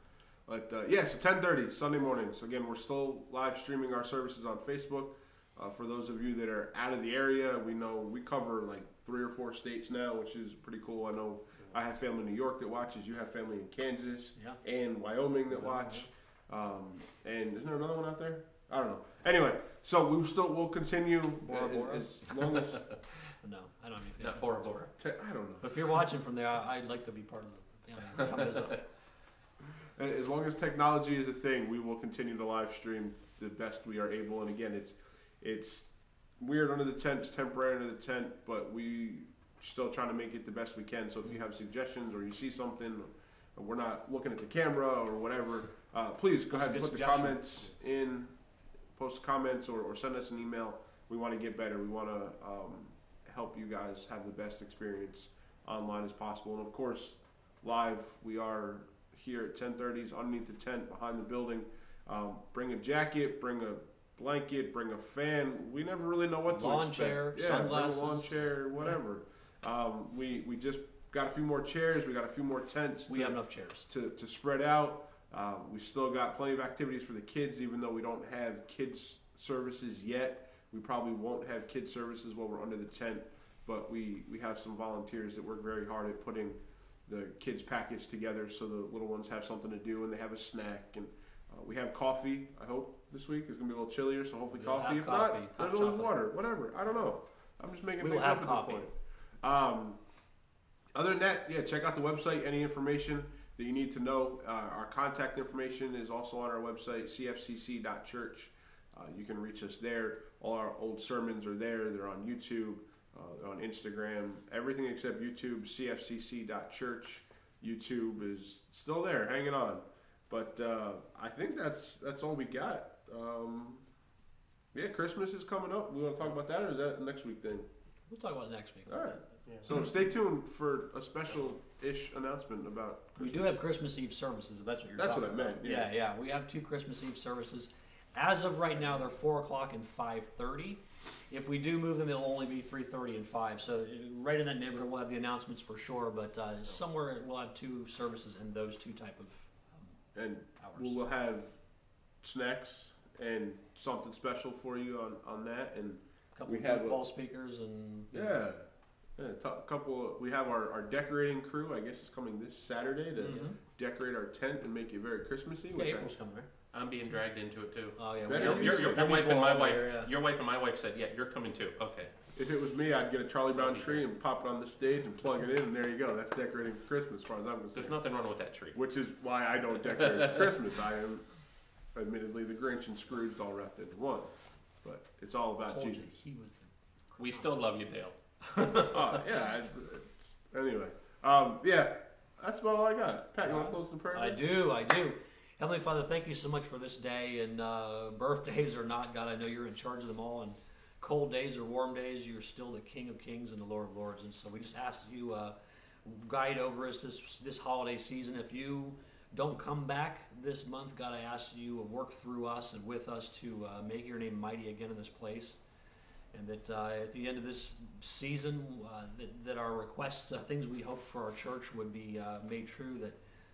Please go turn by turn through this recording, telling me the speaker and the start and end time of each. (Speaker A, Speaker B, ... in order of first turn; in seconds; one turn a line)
Speaker A: 0.5-22.8
Speaker B: 15.5-16.0
Speaker B: 21.5-22.1
Speaker C: 22.3-22.9
Speaker B: 23.4-24.5
Speaker C: 24.2-24.9
Speaker A: 25.0-25.7
Speaker B: 25.6-28.8
Speaker C: 28.3-28.6
Speaker A: 29.8-48.4
Speaker B: 46.5-47.6
Speaker A: 48.9-73.3
Speaker B: 66.5-68.5
Speaker B: 73.1-73.9
Speaker A: 73.9-100.0
Speaker B: 94.5-96.1
Speaker B: 98.0-98.9
Speaker A: 100.9-123.8
Speaker A: 124.7-127.7
Speaker B: 128.1-129.2
Speaker A: 128.9-133.6
Speaker C: 129.4-129.7
Speaker B: 133.2-150.0
Speaker A: 135.0-135.9
Speaker A: 150.1-151.6
Speaker B: 150.5-151.0
Speaker A: 152.2-157.0
Speaker B: 156.3-158.3
Speaker A: 158.1-166.1
Speaker B: 163.2-163.6
Speaker B: 165.7-166.5
Speaker C: 166.7-172.1
Speaker B: 167.9-170.1
Speaker A: 168.2-169.1
Speaker A: 172.3-178.0
Speaker C: 173.5-174.0
Speaker C: 177.7-178.8
Speaker A: 178.7-181.3
Speaker C: 180.1-180.4
Speaker A: 181.9-186.2
Speaker B: 185.7-186.7
Speaker C: 187.2-189.2
Speaker A: 188.9-194.4
Speaker B: 193.4-215.6
Speaker B: 216.3-223.2